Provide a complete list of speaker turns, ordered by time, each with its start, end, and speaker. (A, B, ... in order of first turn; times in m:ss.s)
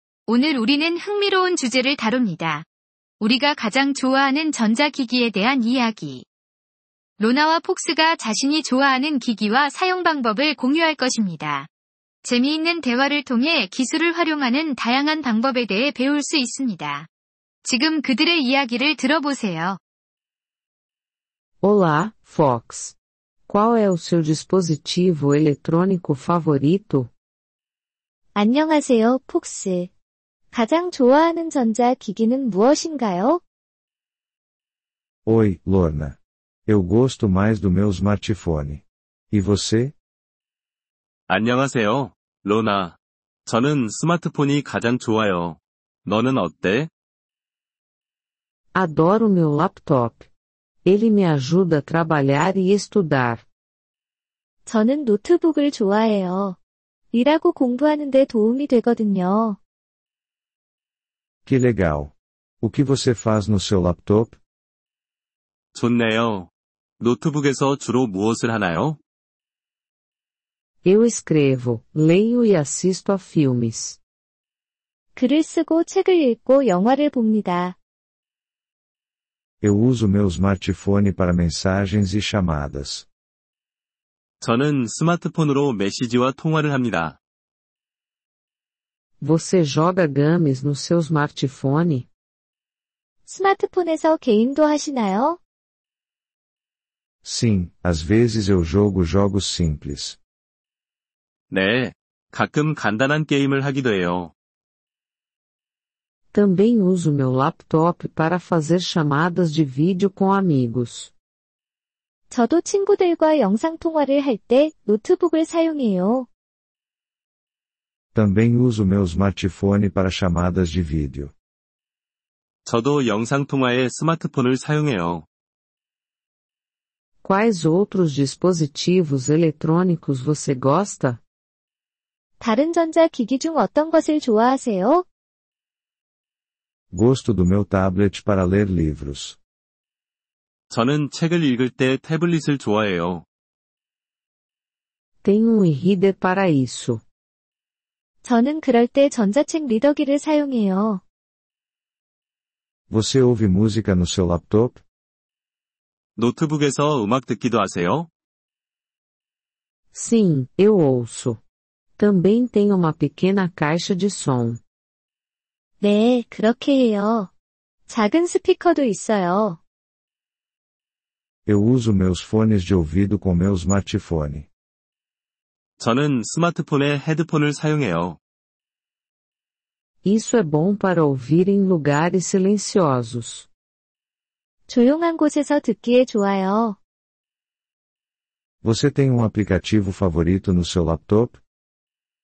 0:00.3-0:02.7 A
0:03.2-0:06.3 A
0:07.2-0:11.7 A
0:12.2-0:17.1 A
0:17.6-0:19.8 A
0:21.6-0:23.0 B
0:23.5-0:27.1 B
0:28.3-0:29.9 C
0:30.5-0:33.4 C
0:35.2-0:39.9 D
0:41.3-0:46.9 E
0:48.7-0:50.3 B
0:50.8-0:53.4 B
0:54.7-0:56.6 C
0:57.1-0:59.6 C
1:01.5-1:04.4 D
1:05.8-1:09.0 E
1:10.8-1:14.0 B
1:15.2-1:17.8 C
1:19.6-1:23.1 D
1:24.4-1:27.2 E
1:29.2-1:32.1 B
1:33.3-1:35.4 C
1:37.2-1:40.2 D
1:41.5-1:44.3 E
1:46.3-1:51.1 B
1:52.3-1:56.3 C
1:58.1-2:01.3 D
2:02.6-2:05.2 E
2:07.2-2:11.2 B
2:12.4-2:15.1 C
2:16.9-2:19.4 D
2:20.7-2:23.2 E
2:25.2-2:27.0 B
2:28.2-2:31.0 C
2:32.9-2:34.8 D
2:36.2-2:38.1 E
2:39.9-2:41.4 B
2:42.0-2:44.6 B
2:45.8-2:47.3 C
2:47.9-2:49.6 C
2:51.5-2:54.5 D
2:55.8-2:58.2 E
3:00.0-3:03.5 B
3:04.7-3:06.8 C
3:08.6-3:11.4 D